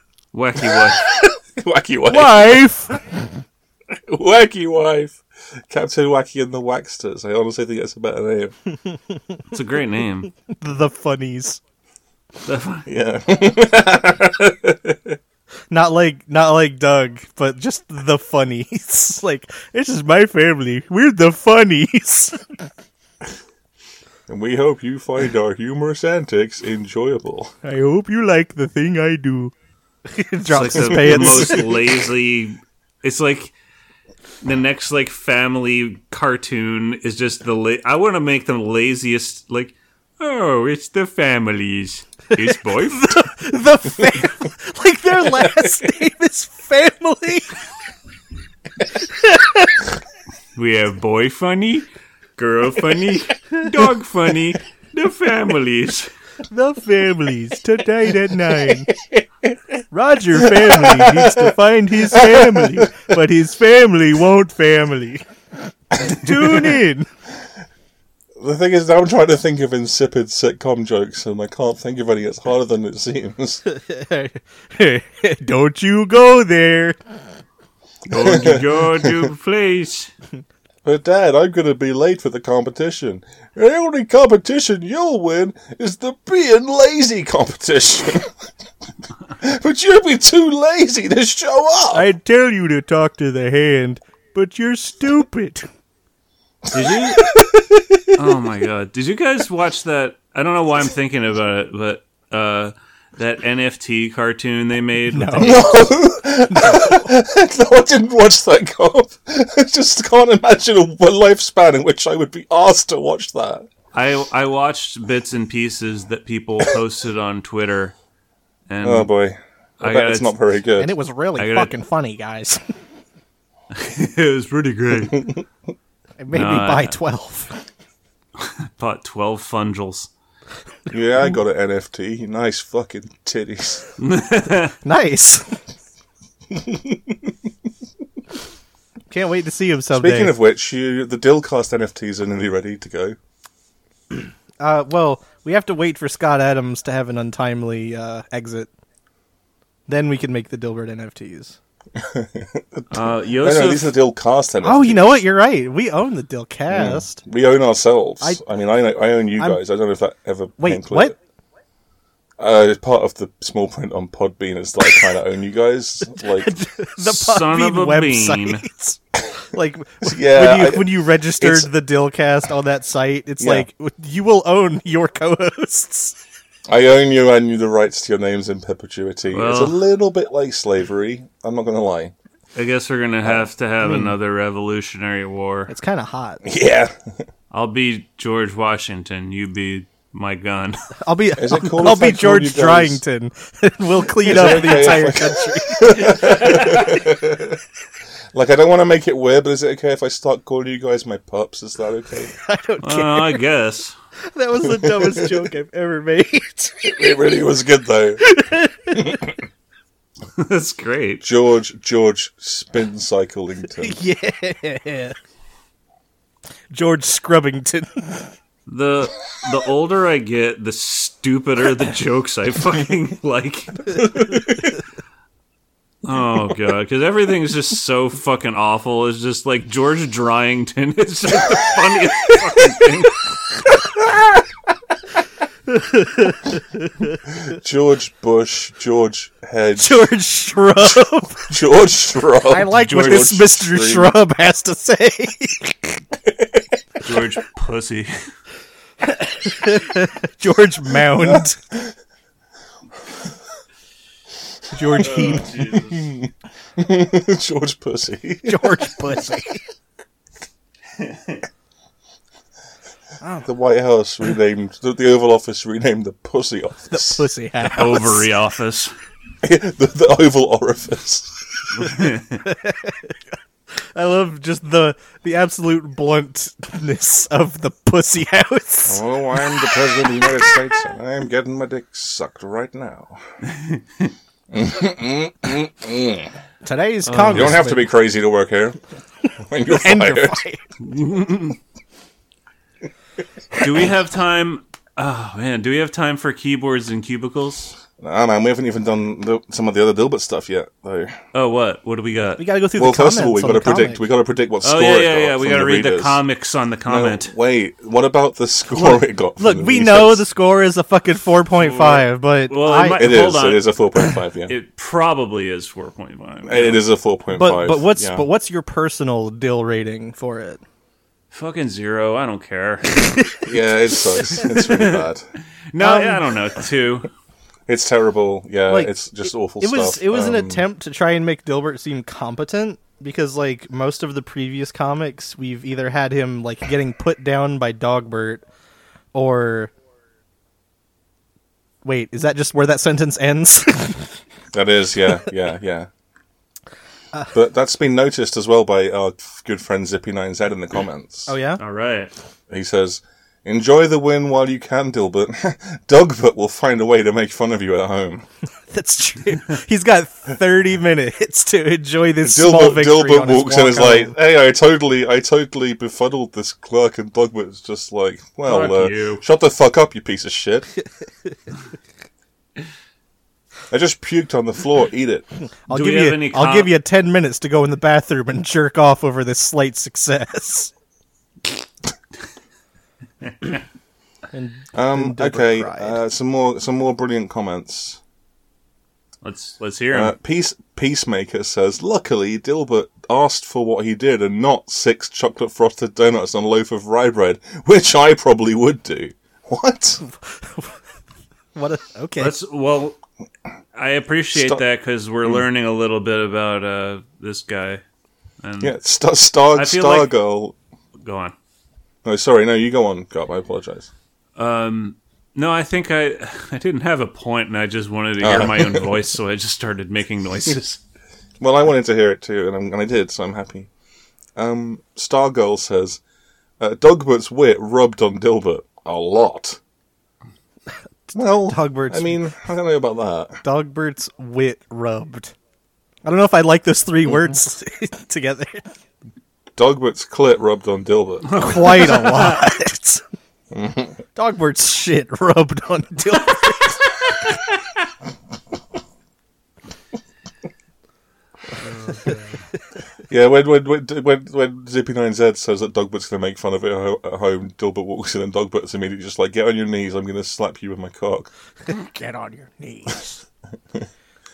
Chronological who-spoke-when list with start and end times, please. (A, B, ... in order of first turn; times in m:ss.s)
0:00.3-0:01.0 A
0:00.8-0:02.7 B
0:02.1-0:03.0 C
0:03.9-0:08.5 B
0:09.5-0:10.3 A
0:10.5-0:11.6 C
0:12.4-0:12.9 A
0:12.9-0:15.2 B
0:15.7-0:22.4 C
0:24.3-0:27.5 B
0:27.6-0:29.5 C
0:30.1-0:31.8 C
0:30.5-0:33.5 A
0:30.9-0:31.6 B
0:34.4-0:43.1 A
0:42.4-0:47.6 C
0:45.3-0:45.7 B
0:49.0-0:49.8 C
0:50.5-0:56.1 A
0:56.5-0:58.9 C
0:58.6-0:59.8 B
0:59.9-1:05.2 C
1:00.3-1:03.1 B
1:05.9-1:07.1 C
1:05.9-1:06.8 B
1:08.4-1:13.6 B
1:13.7-1:17.0 C
1:18.1-1:20.1 A
1:18.1-1:19.3 B
1:20.8-1:28.3 B
1:29.3-1:32.1 B
1:31.9-1:35.7 C
1:36.7-1:38.2 B
1:36.7-1:37.3 A
1:38.1-1:45.6 A
1:45.1-1:45.8 C
1:45.4-1:53.7 B
1:46.5-1:47.0 C
1:53.9-1:57.9 A
1:58.7-1:59.1 A
1:58.8-2:00.9 B
1:59.8-2:00.4 A
2:00.8-2:02.6 C
2:01.4-2:01.7 A
2:03.7-2:05.3 A
2:05.1-2:05.4 B
2:06.2-2:07.6 C
2:06.3-2:07.0 A
2:08.4-2:10.1 A
2:10.9-2:13.9 B
2:14.0-2:14.8 A
2:14.8-2:15.6 C
2:16.5-2:17.3 B
2:19.1-2:20.3 C
2:19.9-2:23.2 B
2:24.6-2:28.7 C
2:29.9-2:31.6 C
2:31.9-2:35.2 B
2:32.9-2:33.9 A
2:34.6-2:37.2 C
2:36.7-2:41.1 B
2:40.6-2:41.1 C
2:42.4-2:46.5 B
2:46.2-2:56.2 C
2:47.0-2:48.6 A
2:50.0-2:51.7 B
2:53.4-2:53.7 B
2:56.7-3:02.1 B
2:59.3-2:59.8 A
3:02.5-3:05.7 A
3:03.2-3:04.1 B
3:05.7-3:06.4 C
3:06.4-3:06.9 B
3:07.5-3:10.8 A
3:11.0-3:16.6 C
3:11.4-3:13.0 B
3:14.2-3:17.6 B
3:16.2-3:17.0 A
3:18.3-3:22.3 B
3:22.3-3:23.4 C
3:22.8-3:24.0 A
3:24.3-3:26.9 C
3:24.6-3:25.5 B
3:26.8-3:28.2 B
3:28.2-3:29.2 C
3:28.9-3:29.4 B
3:30.3-3:31.2 A
3:31.2-3:34.0 B
3:33.8-3:35.2 C
3:36.7-3:38.3 C
3:38.7-3:44.0 A
3:44.0-3:44.7 B
3:46.0-3:53.2 A
3:53.9-3:54.4 B
3:55.7-3:57.0 C
3:57.3-4:00.1 B
3:59.8-4:01.5 C
4:01.5-4:04.2 B
4:02.5-4:06.0 C
4:02.7-4:03.4 A
4:06.2-4:06.7 B
4:07.0-4:08.1 A
4:09.0-4:11.6 C
4:11.1-4:11.9 B
4:14.7-4:15.6 C
4:15.0-4:16.1 A
4:15.2-4:19.2 B
4:18.4-4:19.6 C
4:20.9-4:21.4 A
4:23.2-4:23.5 C
4:23.4-4:27.3 B
4:26.9-4:28.2 C
4:27.6-4:28.9 A
4:29.4-4:31.7 B
4:31.7-4:32.4 A
4:32.4-4:33.1 C
4:33.9-4:40.6 C
4:38.8-4:43.2 B
4:43.4-4:44.1 A
4:44.5-4:46.3 B
4:46.6-4:47.8 C
4:47.0-4:47.6 A
4:47.2-4:48.8 B
4:49.4-4:50.4 B
4:49.7-4:50.6 C
4:50.8-4:51.6 A
4:53.6-4:57.8 A
4:58.0-5:01.2 B
5:01.3-5:02.4 A
5:02.4-5:04.0 C
5:02.8-5:06.2 B
5:04.6-5:07.3 A
5:06.8-5:10.2 B
5:08.7-5:13.2 C
5:11.6-5:13.7 A
5:13.0-5:14.5 B
5:14.5-5:16.8 A
5:16.4-5:18.2 B
5:17.3-5:20.6 C
5:21.3-5:23.2 A
5:23.2-5:23.4 C
5:23.4-5:25.3 B
5:24.2-5:25.0 A
5:25.7-5:27.1 A
5:25.8-5:26.2 C
5:27.7-5:30.6 B
5:29.6-5:38.4 C
5:39.1-5:39.7 C
5:41.8-5:44.2 C
5:44.5-5:45.9 B
5:47.3-5:51.3 B
5:51.3-5:51.6 C
5:51.6-5:52.1 A
5:52.5-5:58.2 B
5:58.7-6:04.1 C
6:02.2-6:10.7 B
6:08.4-6:09.2 A
6:13.7-6:15.2 B
6:15.7-6:20.7 C
6:15.7-6:16.7 A
6:24.3-6:26.0 C
6:24.7-6:28.0 B
6:29.2-6:30.1 A
6:29.9-6:40.0 B
6:40.0-6:40.8 C
6:41.5-6:42.3 C
6:42.2-6:43.0 A
6:43.7-6:47.8 A
6:44.3-6:44.6 B
6:48.4-6:48.7 A
6:48.6-6:50.6 B
6:49.5-6:50.1 A
6:51.0-6:51.3 A
6:52.0-6:53.9 B
6:54.4-7:00.8 A
6:58.2-6:58.9 B
7:01.4-7:03.7 B
7:04.4-7:06.0 B
7:06.6-7:09.6 B
7:11.1-7:13.4 B
7:11.4-7:12.2 C
7:13.4-7:15.3 C
7:16.0-7:18.6 C
7:19.6-7:21.4 B
7:21.3-7:22.4 A
7:21.3-7:23.0 C
7:23.5-7:24.0 B
7:24.2-7:27.2 C
7:31.8-7:32.1 A
7:33.1-7:41.3 B
7:41.6-7:43.2 C